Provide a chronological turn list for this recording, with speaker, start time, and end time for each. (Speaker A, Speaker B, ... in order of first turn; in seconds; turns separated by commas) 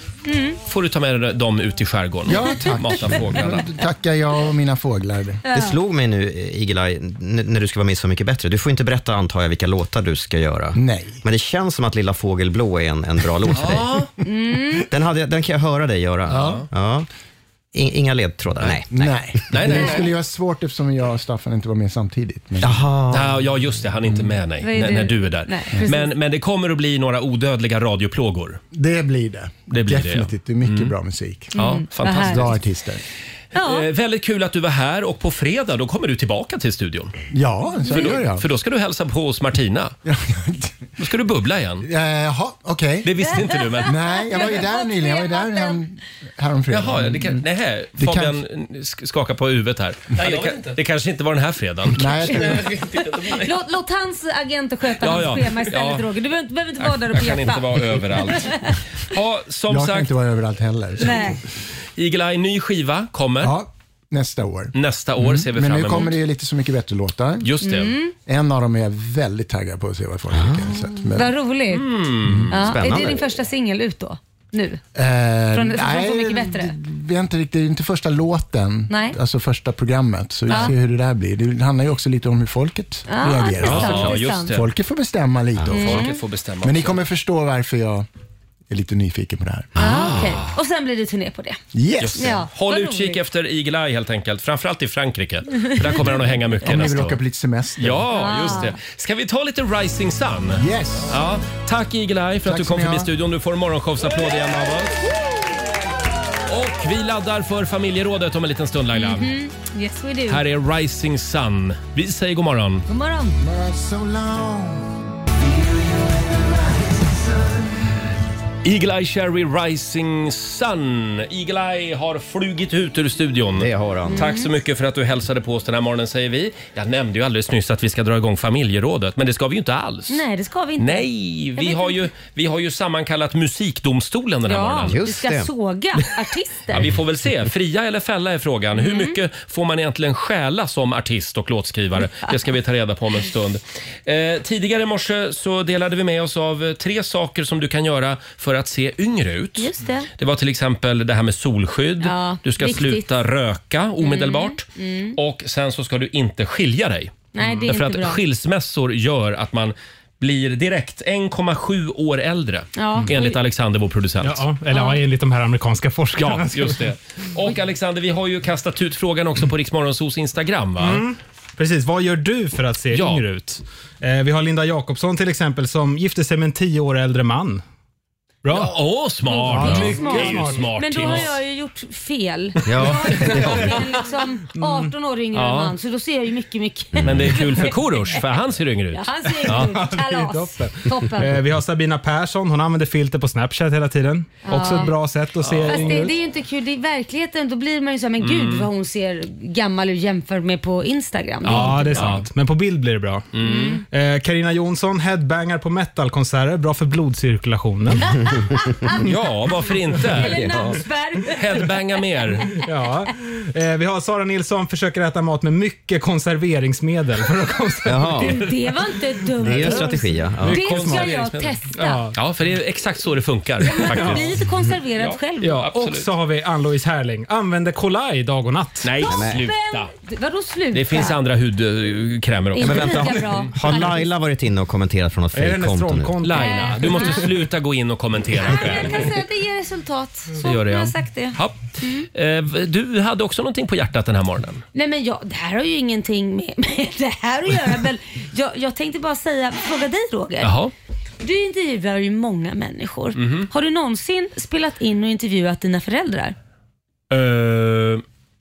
Speaker A: 0.2-0.6, Speaker B: 0.6-3.7, Speaker C: 2.2-5.4, Speaker A: 2.3-2.8, Speaker A: 5.4-5.8, Speaker D: 5.5-13.9, Speaker C: 10.7-11.2, Speaker B: 13.5-14.1, Speaker A: 14.2-14.8, Speaker D: 14.9-17.1, Speaker B: 16.3-16.6, Speaker C: 16.3-16.6, Speaker D: 17.7-19.7, Speaker C: 18.9-22.8, Speaker B: 19.5-20.1, Speaker D: 22.6-23.3, Speaker B: 23.1-28.6, Speaker A: 24.6-26.1, Speaker C: 28.7-31.5, Speaker B: 29.7-30.9, Speaker A: 31.5-32.5, Speaker B: 31.5-32.6, Speaker C: 32.1-33.0, Speaker A: 33.5-33.9, Speaker B: 33.6-37.1, Speaker C: 37.3-38.5, Speaker B: 37.9-39.9, Speaker C: 40.0-40.9, Speaker B: 41.0-41.9, Speaker C: 41.8-43.1, Speaker B: 43.0-44.4, Speaker A: 43.2-45.8, Speaker C: 43.8-47.4, Speaker B: 46.7-53.0, Speaker C: 48.0-48.4, Speaker C: 51.9-52.8, Speaker A: 52.1-58.7, Speaker B: 55.0-56.1, Speaker B: 56.8-60.1, Speaker C: 59.7-61.4, Speaker A: 61.0-61.4, Speaker B: 62.0-63.5, Speaker C: 63.4-67.5, Speaker B: 64.7-66.1, Speaker B: 67.4-68.0, Speaker A: 67.6-68.1, Speaker C: 68.2-71.3, Speaker D: 70.3-70.8, Speaker A: 71.1-71.9, Speaker B: 71.7-72.5, Speaker A: 72.5-74.8, Speaker D: 72.5-73.3, Speaker C: 74.9-86.1, Speaker A: 75.5-76.7, Speaker A: 78.9-79.2, Speaker A: 80.5-80.7, Speaker A: 83.1-84.5, Speaker B: 83.6-84.7, Speaker B: 85.7-87.0, Speaker A: 85.7-86.2, Speaker C: 86.6-88.1, Speaker C: 88.7-89.7, Speaker A: 89.8-91.6, Speaker D: 89.8-90.3, Speaker B: 90.0-90.5, Speaker C: 91.7-92.4, Speaker B: 92.0-97.2, Speaker A: 92.1-93.2, Speaker C: 96.6-98.1, Speaker B: 97.8-105.0, Speaker A: 98.1-98.8, Speaker C: 100.5-101.2, Speaker C: 102.4-103.1, Speaker B: 106.5-109.3, Speaker A: 108.9-110.4, Speaker B: 110.3-112.8, Speaker A: 112.9-113.4, Speaker C: 113.4-115.0, Speaker C: 116.8-117.6, Speaker B: 118.6-130.2, Speaker D: 123.6-124.3, Speaker A: 124.1-124.5, Speaker A: 130.1-132.0, Speaker B: 130.8-135.0, Speaker A: 134.4-136.8, Speaker D: 134.8-135.5, Speaker B: 136.7-164.4, Speaker A: 138.8-139.2, Speaker A: 149.6-150.1, Speaker A: 152.0-153.1, Speaker A: 154.0-155.2, Speaker A: 157.3-158.2, Speaker A: 162.8-163.4, Speaker E: 164.2-166.8, Speaker A: 164.7-165.0, Speaker B: 166.2-171.1, Speaker E: 170.8-177.6, Speaker B: 172.9-173.3, Speaker E: 178.4-178.8, Speaker B: 178.5-181.4, Speaker A: 179.3-188.2, Speaker E: 179.4-181.3, Speaker D: 182.7-183.5, Speaker B: 182.7-183.6, Speaker E: 184.6-184.9, Speaker B: 185.3-185.7, Speaker D: 186.9-187.3, Speaker B: 187.0-189.8, Speaker A: 188.9-191.3, Speaker E: 189.4-196.1, Speaker A: 194.5-194.9, Speaker B: 195.4-196.0, Speaker A: 195.7-202.2, Speaker B: 198.2-198.7, Speaker E: 201.4-203.2, Speaker B: 201.4-202.3, Speaker B: 203.3-203.8, Speaker A: 203.4-203.8, Speaker E: 203.8-208.2, Speaker B: 209.0-210.4, Speaker A: 210.1-211.7, Speaker D: 210.2-210.8, Speaker B: 211.3-212.5, Speaker E: 212.6-218.5, Speaker D: 217.8-218.3, Speaker A: 218.2-222.0, Speaker D: 219.4-220.6, Speaker E: 219.6-219.9, Speaker B: 220.4-221.6, Speaker E: 220.4-221.1, Speaker E: 221.7-222.2, Speaker B: 222.1-224.3, Speaker A: 223.6-225.7, Speaker E: 223.7-224.3, Speaker B: 225.0-226.1, Speaker E: 225.4-229.0, Speaker B: 228.8-229.9, Speaker A: 229.0-231.2, Speaker D: 229.1-229.5, Speaker B: 230.7-233.5, Speaker A: 232.5-233.9, Speaker D: 232.6-236.1, Speaker E: 235.3-237.2, Speaker B: 236.2-239.1, Speaker A: 236.3-237.3, Speaker A: 238.5-242.1, Speaker B: 240.4-241.6, Speaker B: 242.1-244.6, Speaker A: 244.7-250.5, Speaker B: 250.4-250.7, Speaker A: 251.2-256.3, Speaker B: 253.2-253.5, Speaker B: 257.1-258.0